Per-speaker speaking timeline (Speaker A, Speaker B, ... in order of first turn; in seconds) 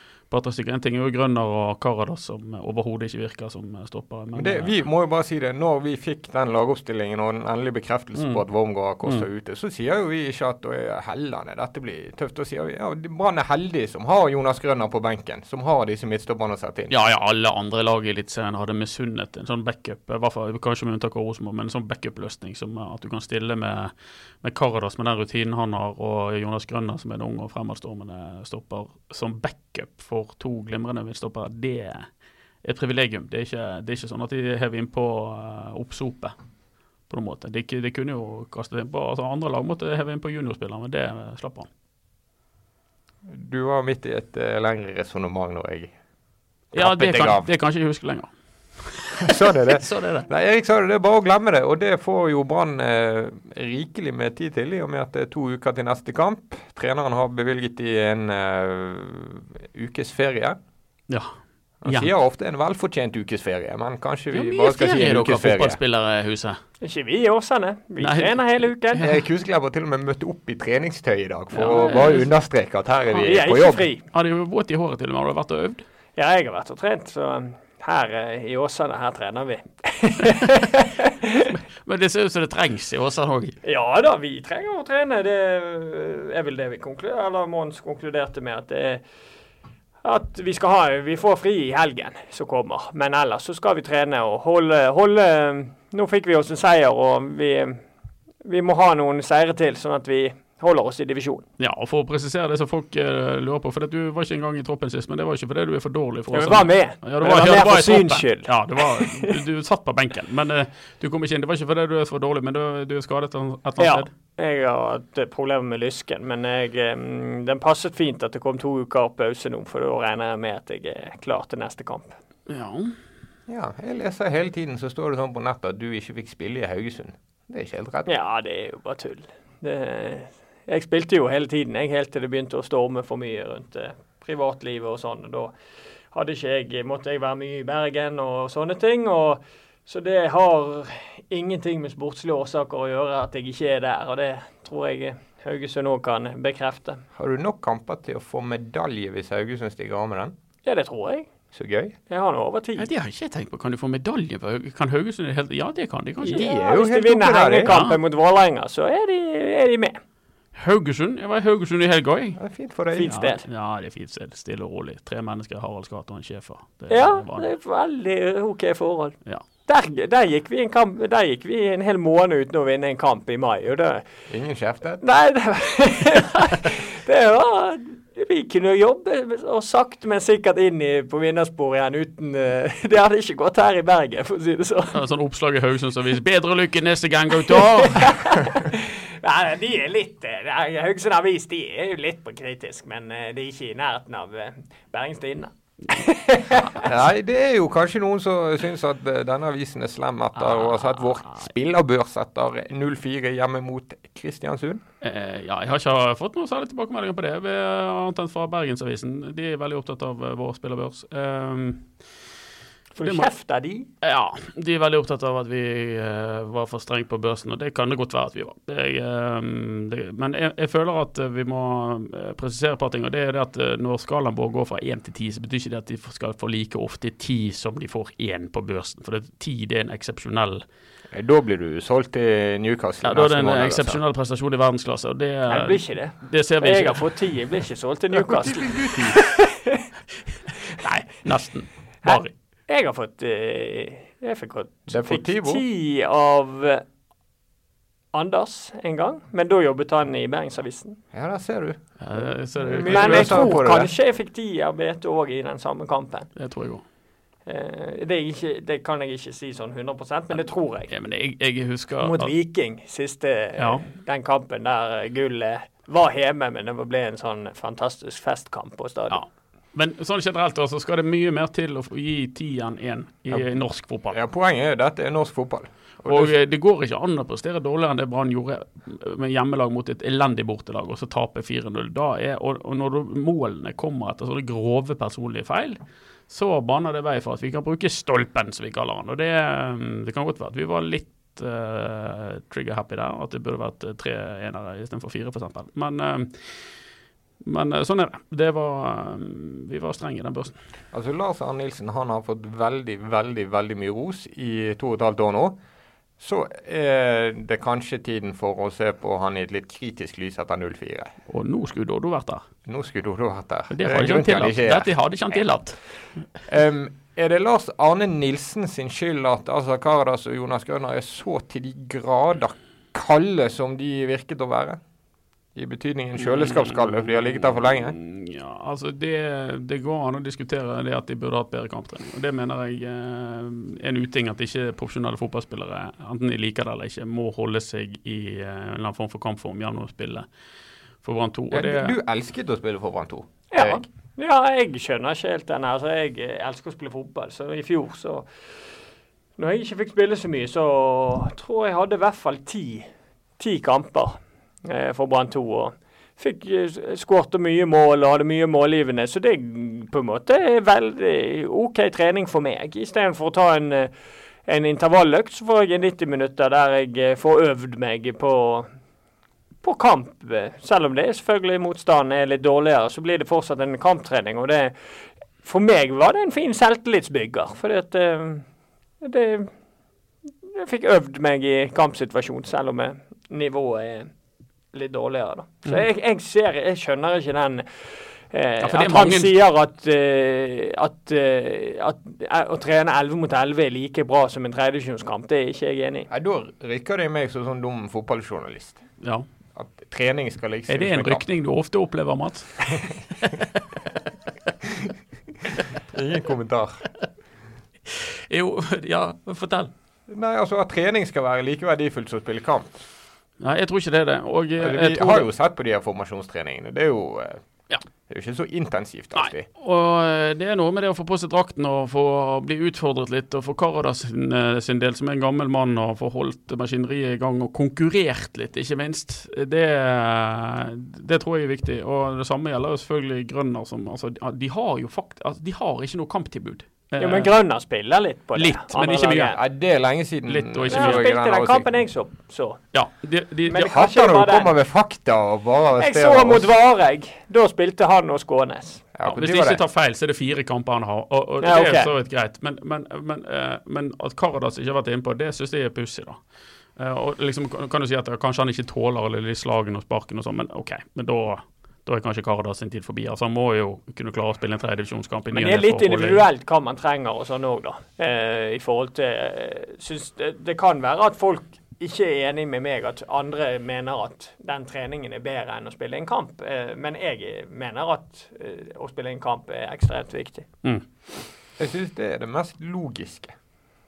Speaker A: 0.3-4.8, 16.9-32.1, 32.6-36.3, 37.1-41.7, 46.7-50.3, 61.1-62.1, 64.3-66.6, 68.0-69.1, 71.5-72.3, 74.1-75.8, 81.4-83.5, 101.6-114.1, 122.5-123.0, 152.8-156.5, 157.7-158.0, 160.6-162.4, 163.0-167.5, 184.9-188.1, 200.4-201.5, 205.0-211.9, 213.0-213.3, 214.0-230.6, 233.0-237.1, 240.8-242.3, 252.0-253.6, 256.4-256.8, 260.3-262.3, 263.6-263.9, 269.1-274.2, 276.1-296.7, 297.4-300.6, 311.3-312.5, 313.7-315.9, 326.2-340.3, 341.0-341.9, 388.6-389.3, 399.0-399.3, 400.7-402.7, 407.9-409.7, 413.4-415.3, 419.1-437.3, 438.4-439.4, 440.3-441.0, 442.7-443.7, 449.1-456.2, 456.8-466.2
Speaker B: 4.4-16.9, 43.2-45.9, 46.7-47.5, 49.2-60.6, 61.8-65.8, 69.0-73.9, 123.5-128.1, 147.2-150.3, 151.5-152.0, 156.3-157.7, 162.4-163.2, 174.3-175.0, 196.8-204.8, 231.1-234.0, 238.1-239.2, 244.9-245.6, 251.1-253.9, 273.3-273.6, 274.1-276.4, 300.9-305.6, 306.2-311.1, 312.7-315.0, 316.5-324.8, 325.6-327.9, 341.5-343.9, 396.1-398.8, 399.6-401.2, 405.9-406.8, 410.1-412.8, 414.6-417.4, 418.1-419.5, 439.3-441.7, 443.6-446.5, 448.9-449.6, 481.6-483.4
Speaker C: 66.8-69.1, 73.2-74.0, 76.2-81.5, 83.6-89.0, 90.0-97.8, 98.4-101.5, 106.3-109.3, 113.8-122.2, 128.1-135.5, 136.1-147.0, 150.7-151.3, 152.1-152.9, 156.3-160.0, 162.9-163.5, 166.9-174.0, 175.0-185.0, 187.4-196.9, 212.9-213.9, 235.5-239.8, 242.0-246.8, 248.1-251.0, 252.7-256.3, 257.5-260.9, 262.0-269.2, 343.5-348.3, 349.4-352.9, 353.4-363.9, 364.5-368.7, 369.6-374.9, 375.4-378.5, 379.0-379.5, 380.4-384.1, 384.7-396.1, 437.0-439.4, 440.7-442.7, 443.5-444.5, 445.8-448.9, 451.4-451.9, 465.3-480.5